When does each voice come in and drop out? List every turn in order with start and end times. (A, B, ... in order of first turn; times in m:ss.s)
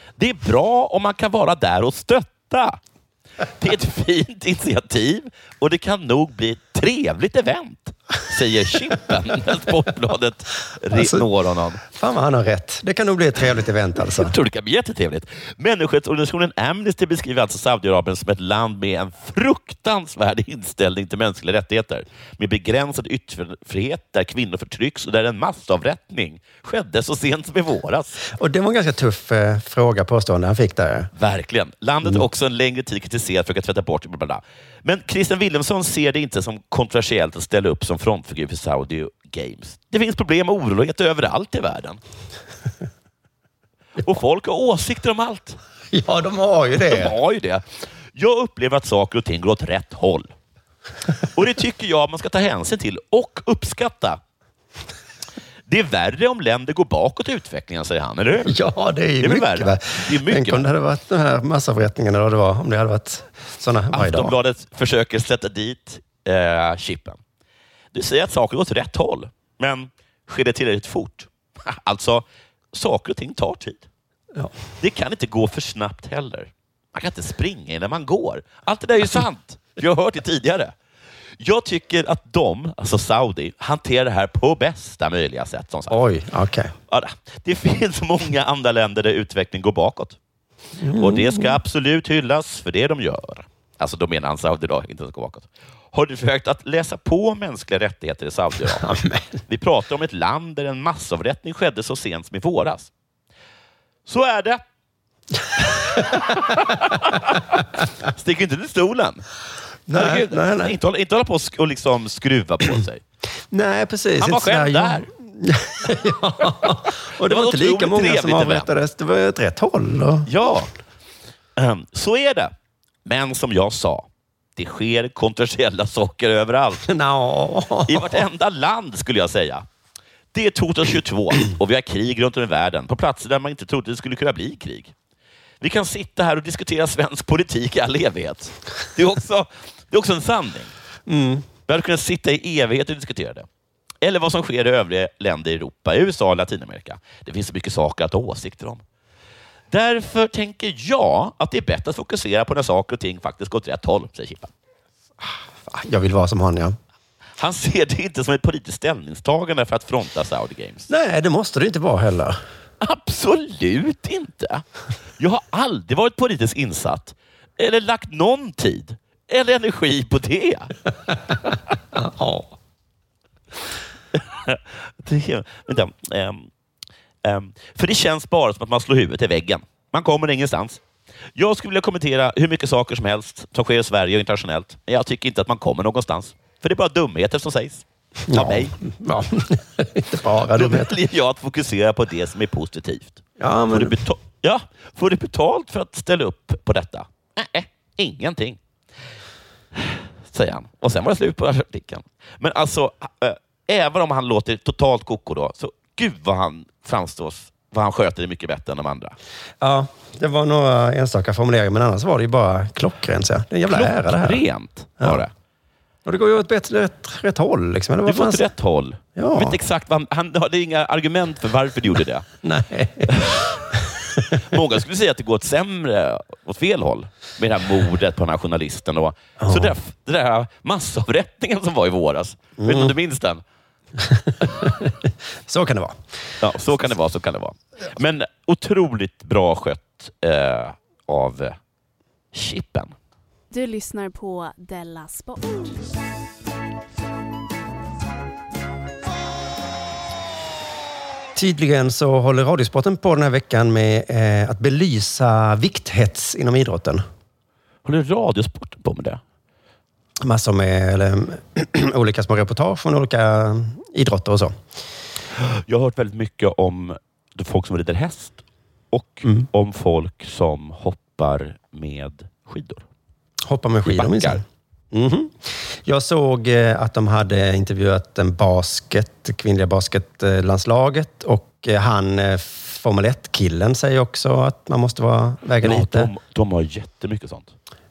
0:00.2-0:02.8 A
0:03.6-0:11.8 A
0:10.9-0:11.2 B
0:11.8-0:14.3 B
0:14.1-0:28.2 A
0:28.2-0:31.1 B
0:31.1-0:42.0 A
0:44.0-0:45.6 A
0:45.9-0:47.2 B
0:46.8-0:47.6 A
0:48.1-0:50.3 A
0:51.3-0:54.2 A
0:55.7-0:58.6 A
0:58.4-1:04.4 B
0:59.2-1:00.7 A
1:03.9-1:07.2 A
1:07.9-1:13.8 A
1:14.8-1:20.7 A
1:21.4-1:26.0 A
1:25.9-1:26.7 B
1:26.9-1:30.2 A
1:30.8-1:31.6 B
1:31.0-1:38.9 A
1:38.7-1:39.3 B
1:39.5-1:42.9 A
1:44.1-1:44.6 A
1:45.6-1:46.6 B
1:46.3-1:49.2 A
1:49.9-1:50.8 B
1:49.9-1:53.0 A
1:53.5-2:00.3 B
1:54.2-1:55.1 A
1:57.2-1:58.7 A
2:00.3-2:00.7 A
2:01.6-2:02.5 A
2:03.0-2:06.9 A
2:06.9-2:08.2 B
2:07.9-2:09.6 A
2:10.3-2:14.9 A
2:15.6-2:20.7 A
2:21.1-2:21.4 B
2:21.7-2:23.5 A
2:24.0-2:28.8 A
2:29.7-2:34.5 A
2:35.2-2:36.8 B
2:37.4-2:40.9 A
2:40.9-2:42.4 B
2:42.8-2:44.6 A
2:45.2-2:50.7 A
2:52.0-2:52.5 B
2:54.1-2:56.5 A
2:57.2-3:00.8 A
3:01.4-3:08.8 A
3:08.3-3:11.0 B
3:10.5-3:18.6 A
3:13.4-3:14.0 B
3:19.7-3:29.1 A
3:29.6-3:34.4 B
3:33.7-3:35.3 A
3:36.0-3:38.4 B
3:38.0-3:42.3 A
3:39.2-3:39.6 B
3:42.4-3:44.2 B
3:43.1-3:43.4 A
3:44.4-3:53.4 A
3:49.4-3:49.7 B
3:52.6-3:52.9 B
3:54.0-3:56.0 B
3:56.4-4:01.6 A
4:02.3-4:03.0 A
4:03.5-4:05.8 C
4:11.4-4:17.0 B
4:17.8-4:19.2 A
4:20.2-4:24.6 B
4:25.4-4:28.4 A
4:28.9-4:32.8 A
4:33.4-4:46.1 B
4:33.9-4:34.4 A
4:45.6-4:47.5 A